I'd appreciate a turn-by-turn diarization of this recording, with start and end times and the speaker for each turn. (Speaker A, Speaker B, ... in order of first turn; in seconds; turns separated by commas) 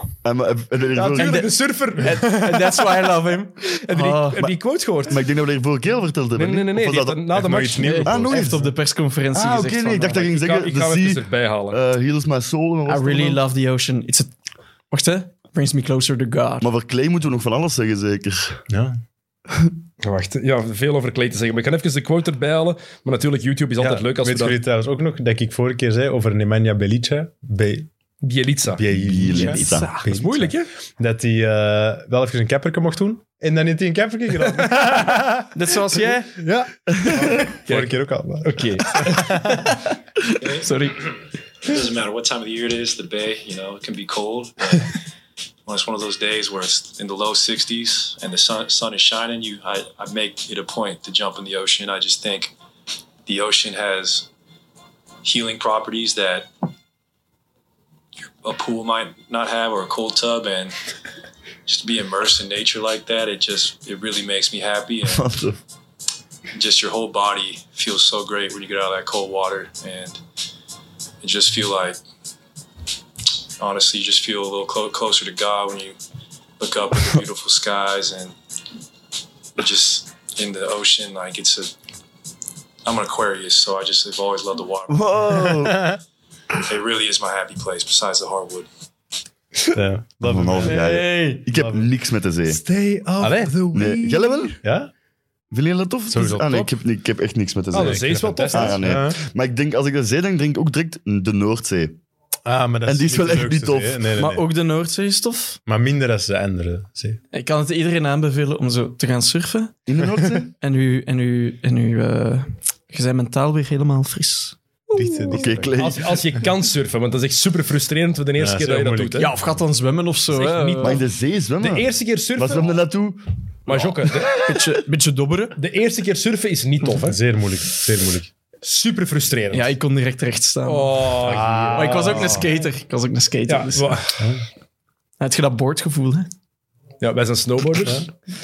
Speaker A: 0.2-1.4, Speaker B: 0.9-2.7, Speaker C: 1.1-4.5, Speaker B: 3.7-5.2, Speaker A: 5.1-7.4, Speaker B: 6.3-8.0, Speaker D: 7.3-8.7, Speaker C: 7.8-10.2, Speaker A: 8.1-8.6, Speaker A: 9.3-13.4, Speaker B: 10.1-11.8, Speaker C: 12.8-14.3, Speaker C: 14.9-16.7, Speaker A: 16.6-18.6, Speaker D: 18.7-19.0, Speaker B: 20.0-24.6, Speaker D: 23.8-27.9, Speaker B: 28.2-28.8, Speaker D: 28.7-35.5, Speaker A: 28.9-29.9, Speaker C: 29.3-30.0, Speaker B: 30.1-30.7, Speaker C: 35.5-36.3, Speaker D: 36.3-39.4, Speaker B: 37.6-39.3, Speaker C: 39.3-39.8, Speaker C: 40.4-41.1, Speaker E: 41.6-44.9, Speaker E: 45.6-52.5, Speaker E: 53.2-54.3, Speaker E: 55.2-56.5, Speaker E: 58.2-60.7, Speaker E: 61.6-65.3, Speaker A: 65.0-65.6, Speaker E: 66.5-70.2, Speaker E: 71.2-72.0, Speaker E: 73.6-76.0, Speaker E: 76.6-78.3, Speaker E: 79.5-81.7, Speaker E: 82.8-85.1, Speaker A: 84.9-85.9, Speaker D: 85.7-85.9, Speaker E: 86.6-88.7, Speaker D: 89.7-91.9, Speaker A: 90.2-92.6, Speaker C: 90.6-91.4, Speaker B: 92.5-94.5, Speaker D: 93.2-93.5, Speaker A: 93.7-94.5, Speaker D: 94.6-94.9, Speaker A: 95.5-102.0, Speaker D: 96.1-96.7, Speaker B: 97.7-98.9, Speaker D: 97.8-99.2, Speaker D: 102.4-104.5, Speaker A: 102.8-104.0, Speaker C: 104.2-105.6, Speaker D: 105.7-107.2, Speaker C: 107.3-109.8, Speaker A: 109.9-110.5, Speaker C: 110.6-115.3, Speaker D: 114.9-115.7, Speaker A: 115.3-116.2, Speaker B: 115.7-119.3, Speaker D: 118.4-119.3, Speaker C: 119.2-121.0, Speaker B: 120.3-121.0, Speaker A: 120.8-124.6, Speaker B: 121.6-122.8, Speaker B: 123.7-124.3, Speaker C: 124.2-125.5, Speaker B: 125.5-127.2, Speaker D: 127.0-128.3, Speaker B: 128.6-129.7, Speaker C: 129.5-131.2, Speaker B: 130.7-132.5, Speaker D: 131.2-132.5, Speaker C: 131.7-134.0, Speaker B: 133.5-134.2, Speaker C: 135.2-136.3, Speaker B: 137.0-138.1